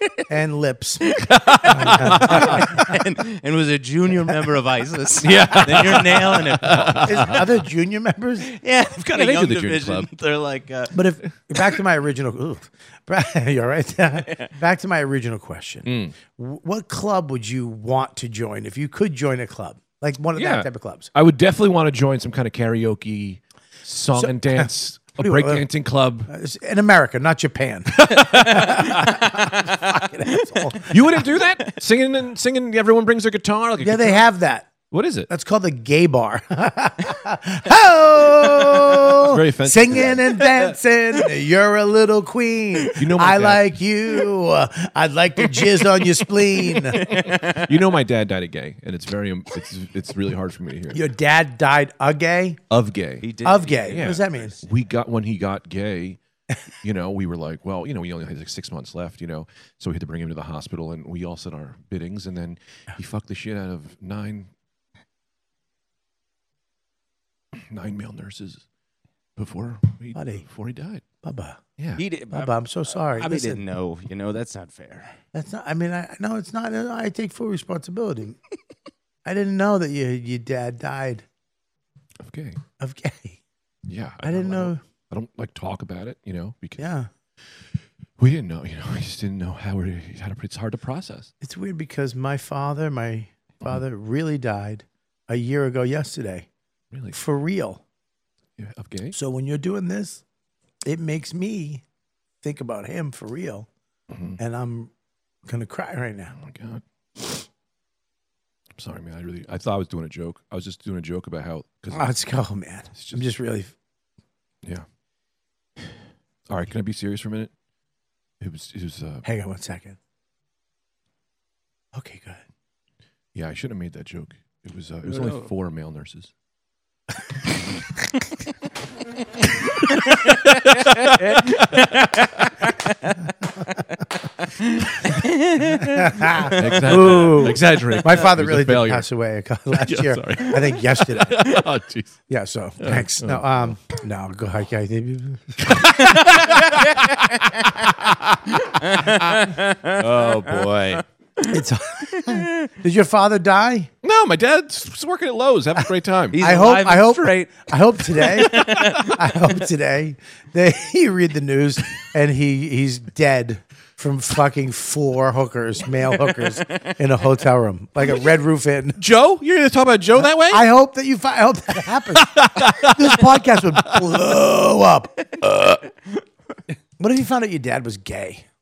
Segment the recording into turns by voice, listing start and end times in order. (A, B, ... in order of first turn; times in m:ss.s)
0:00.3-0:01.0 A
0:01.1-0:07.0 B
0:01.5-0:02.7 C
0:01.7-0:02.9 A
0:05.2-0:07.5 C
0:07.0-0:08.5 A
0:08.4-0:10.9 B
0:09.0-0:10.1 C
0:10.9-0:21.1 A
0:15.8-0:16.1 C
0:20.3-0:26.3 C
0:24.1-0:25.6 A
0:26.3-0:30.9 A
0:28.0-0:29.3 C
0:28.5-0:29.1 B
0:30.9-0:34.2 C
0:33.8-0:34.7 A
0:34.9-0:35.3 C
0:35.3-0:47.0 A
0:39.2-0:40.4 C
0:42.9-0:43.7 C
0:46.9-0:47.7 B
0:47.2-0:51.0 C
0:50.9-0:52.6 A
0:52.7-0:53.3 C
0:53.2-0:54.7 B
0:53.4-0:54.5 A
0:53.9-0:56.2 C
0:56.8-1:04.5 C
1:07.5-1:08.6 C
1:09.4-1:11.0 C
1:10.1-1:10.4 A
1:11.2-1:11.6 A
1:12.0-1:15.1 B
1:12.3-1:13.6 A
1:15.3-1:18.4 A
1:19.2-1:21.2 A
1:22.2-1:22.6 C
1:22.8-1:23.4 A
1:23.9-1:26.9 C
1:24.2-1:24.8 A
1:26.8-1:27.1 A
1:28.2-1:31.3 C
1:31.4-1:36.5 A
1:36.9-1:37.2 C
1:37.1-1:37.8 A
1:38.6-1:39.2 C
1:39.1-1:40.2 A
1:40.8-1:41.8 A
1:42.4-1:43.7 A
1:44.1-1:44.4 C
1:44.4-1:44.9 A
1:45.4-1:46.3 A
1:46.4-1:47.4 C
1:48.8-1:52.1 C
1:51.9-1:53.7 A
1:52.9-1:53.2 C
1:56.5-1:57.5 C
1:58.4-1:59.2 C
1:59.2-2:00.0 A
2:01.9-2:02.4 A
2:03.3-2:06.3 C
2:05.1-2:05.4 B
2:09.9-2:13.2 B
2:10.2-2:12.5 C
2:14.6-2:16.0 B
2:15.8-2:21.6 A
2:16.4-2:19.1 C
2:19.7-2:22.2 C
2:22.3-2:25.7 A
2:22.8-2:23.7 C
2:25.6-2:29.4 C
2:26.0-2:27.8 B
2:28.6-2:31.5 B
2:30.0-2:31.0 C
2:31.5-2:33.9 A
2:34.0-2:36.4 C
2:36.3-2:37.6 B
2:36.4-2:49.0 A
2:38.3-2:39.2 B
2:49.0-2:50.7 C
2:50.5-2:55.1 A
2:52.1-2:53.4 C
2:55.4-2:55.8 C
2:57.0-2:58.4 A